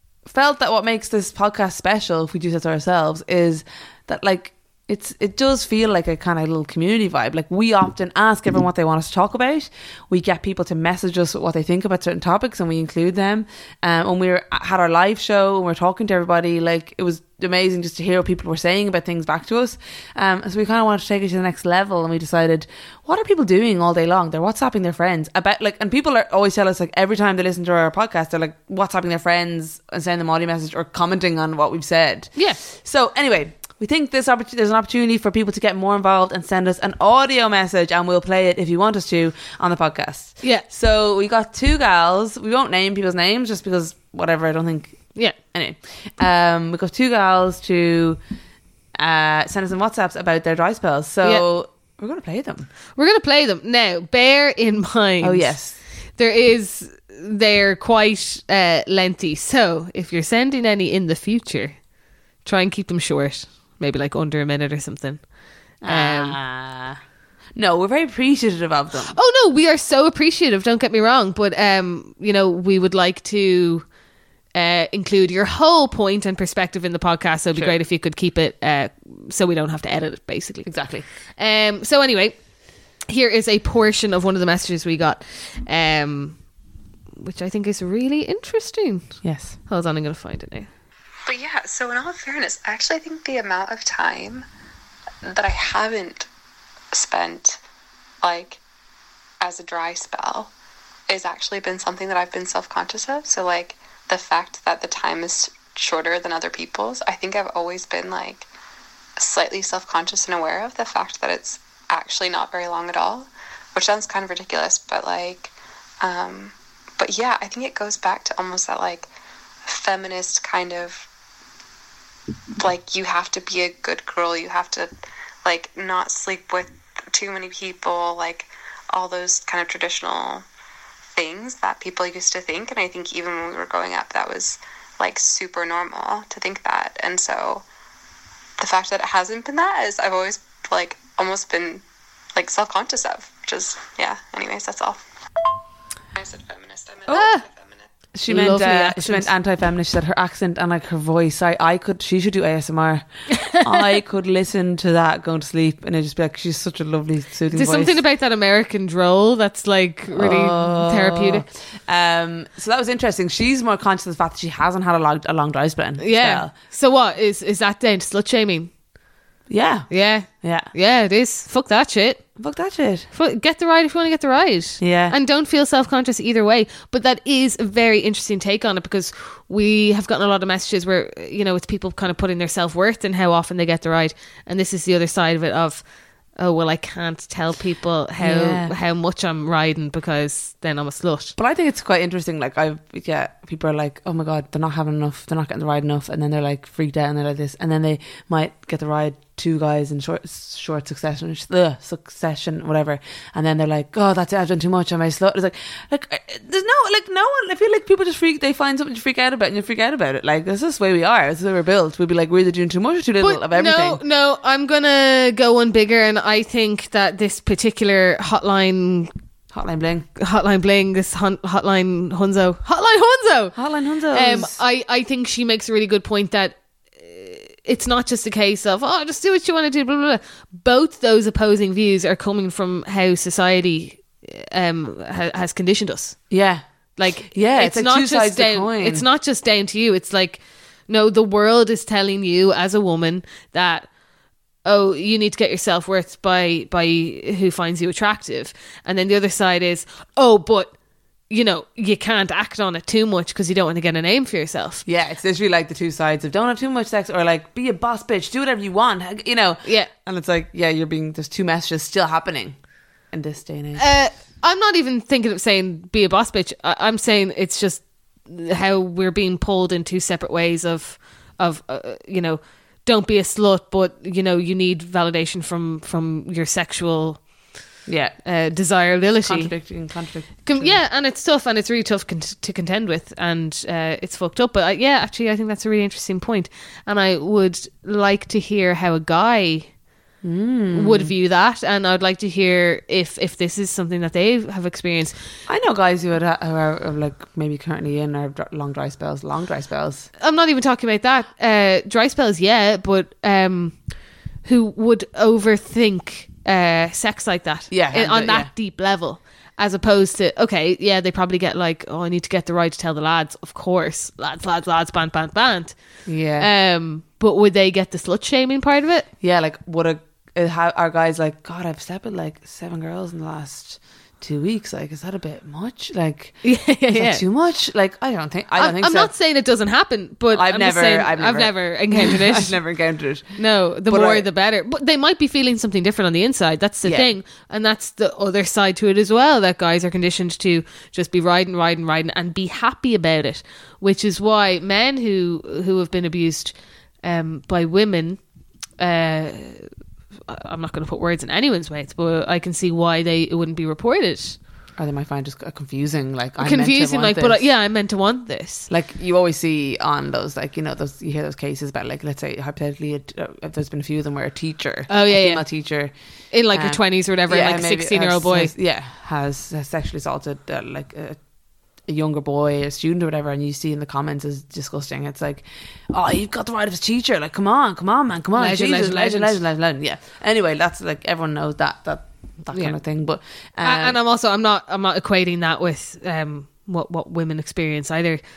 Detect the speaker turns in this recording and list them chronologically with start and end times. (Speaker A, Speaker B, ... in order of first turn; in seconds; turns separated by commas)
Speaker A: 0.3-48.2, Speaker A: 49.0-52.7, Speaker B: 53.0-55.6, Speaker A: 55.2-55.8, Speaker B: 56.2-61.8, Speaker B: 62.4-65.2, Speaker A: 65.8-67.0, Speaker B: 65.9-66.4, Speaker A: 67.6-69.1, Speaker B: 69.1-73.9, Speaker B: 74.5-80.7, Speaker A: 80.6-81.0, Speaker B: 81.4-82.4, Speaker B: 83.1-86.4, Speaker B: 87.2-90.7, Speaker A: 89.2-89.6, Speaker C: 91.3-94.4, Speaker C: 95.2-96.3, Speaker C: 96.9-97.6, Speaker C: 98.2-98.6, Speaker C: 99.4-100.5, Speaker C: 101.1-108.5, Speaker C: 109.2-119.1, Speaker C: 119.6-121.1, Speaker C: 122.6-124.9, Speaker C: 125.4-130.4, Speaker C: 131.1-137.6, Speaker C: 138.6-141.8, Speaker C: 142.3-145.0, Speaker C: 146.1-147.9, Speaker B: 147.1-147.4, Speaker A: 148.1-158.0, Speaker B: 148.3-149.3, Speaker B: 153.3-153.8, Speaker B: 157.5-161.5, Speaker A: 160.1-166.5, Speaker B: 166.0-168.7, Speaker A: 169.5-170.7, Speaker B: 169.9-172.2, Speaker A: 172.4-173.1, Speaker B: 173.1-185.8, Speaker A: 174.8-175.1, Speaker B: 186.3-191.3, Speaker A: 188.2-188.8, Speaker A: 191.4-214.0, Speaker B: 213.2-219.1, Speaker A: 219.5-220.1, Speaker B: 220.2-223.6, Speaker A: 223.6-224.6, Speaker B: 224.1-236.2, Speaker A: 236.3-236.6, Speaker B: 236.9-243.9, Speaker A: 237.3-239.1, Speaker B: 244.6-250.7, Speaker B: 251.3-254.8, Speaker A: 254.8-262.6, Speaker B: 259.6-259.9, Speaker A: 263.1-263.8, Speaker B: 263.8-277.3, Speaker A: 277.9-278.2, Speaker B: 278.2-279.6, Speaker A: 279.2-280.8, Speaker B: 280.4-289.7, Speaker A: 290.2-291.1, Speaker B: 290.7-295.1, Speaker A: 295.5-300.1, Speaker B: 300.2-303.8, Speaker B: 304.4-315.8, Speaker A: 307.7-308.5, Speaker A: 316.1-316.5, Speaker B: 316.4-319.1, Speaker A: 319.2-329.1, Speaker B: 326.4-327.2, Speaker B: 328.6-332.6, Speaker A: 330.3-334.3, Speaker B: 333.4-348.2, Speaker B: 348.8-349.7, Speaker B: 350.3-354.4, Speaker A: 354.8-357.4, Speaker B: 356.4-358.7, Speaker A: 358.7-365.9, Speaker B: 364.9-365.4, Speaker B: 366.3-368.5, Speaker A: 366.5-371.2, Speaker A: 371.9-384.0, Speaker B: 378.4-379.4, Speaker B: 383.6-388.2